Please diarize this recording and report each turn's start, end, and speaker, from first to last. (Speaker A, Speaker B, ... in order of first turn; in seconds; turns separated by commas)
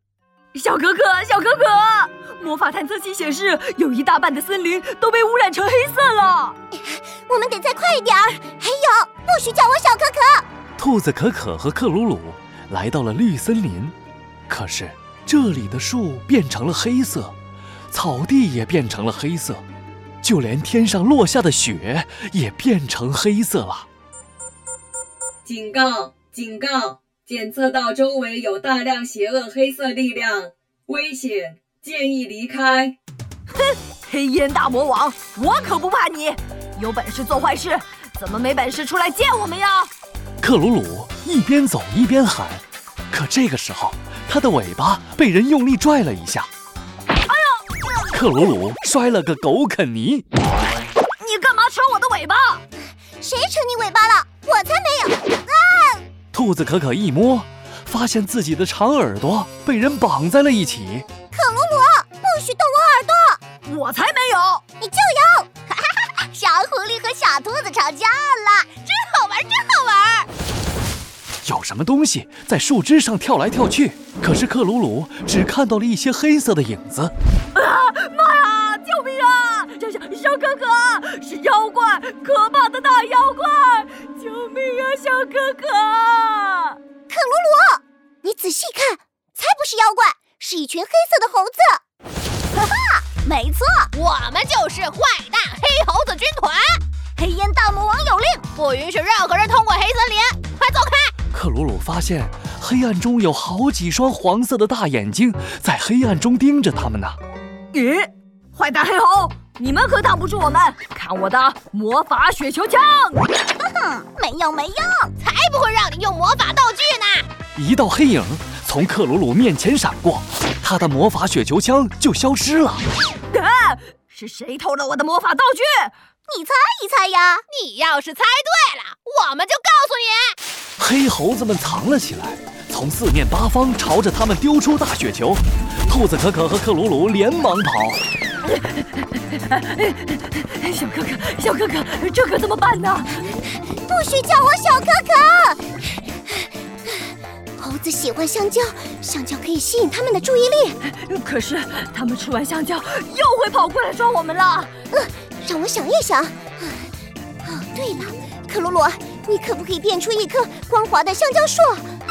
Speaker A: 0.5-6.5, Speaker B: 6.7-10.4, Speaker C: 10.8-13.9, Speaker C: 14.5-17.3, Speaker C: 17.9-19.6, Speaker C: 20.2-23.9, Speaker D: 25.4-33.0, Speaker A: 33.5-39.9, Speaker C: 40.4-46.5, Speaker A: 47.3-47.6, Speaker C: 48.1-50.2, Speaker A: 51.2-52.6, Speaker B: 53.2-56.0, Speaker C: 56.3-61.0, Speaker B: 61.3-63.4, Speaker A: 63.6-64.6, Speaker B: 64.8-68.8, Speaker E: 68.9-70.3, Speaker C: 71.4-77.1, Speaker A: 77.5-86.8, Speaker B: 87.1-91.8, Speaker B: 92.6-93.9, Speaker E: 93.9-96.8, Speaker B: 97.2-98.5, Speaker E: 98.5-101.1, Speaker C: 101.3-107.2, Speaker A: 107.7-113.3, Speaker B: 113.6-115.1, Speaker E: 115.2-117.3, Speaker C: 117.5-122.8, Speaker A: 123.3-125.9, Speaker B: 126.3-127.4, Speaker E: 127.5-130.3, Speaker C: 130.8-138.0, Speaker A: 138.4-143.2, Speaker B: 143.8-145.6, Speaker B: 147.6-150.8, Speaker A: 150.8-154.7, Speaker B: 154.9-156.9, Speaker B: 157.4-161.8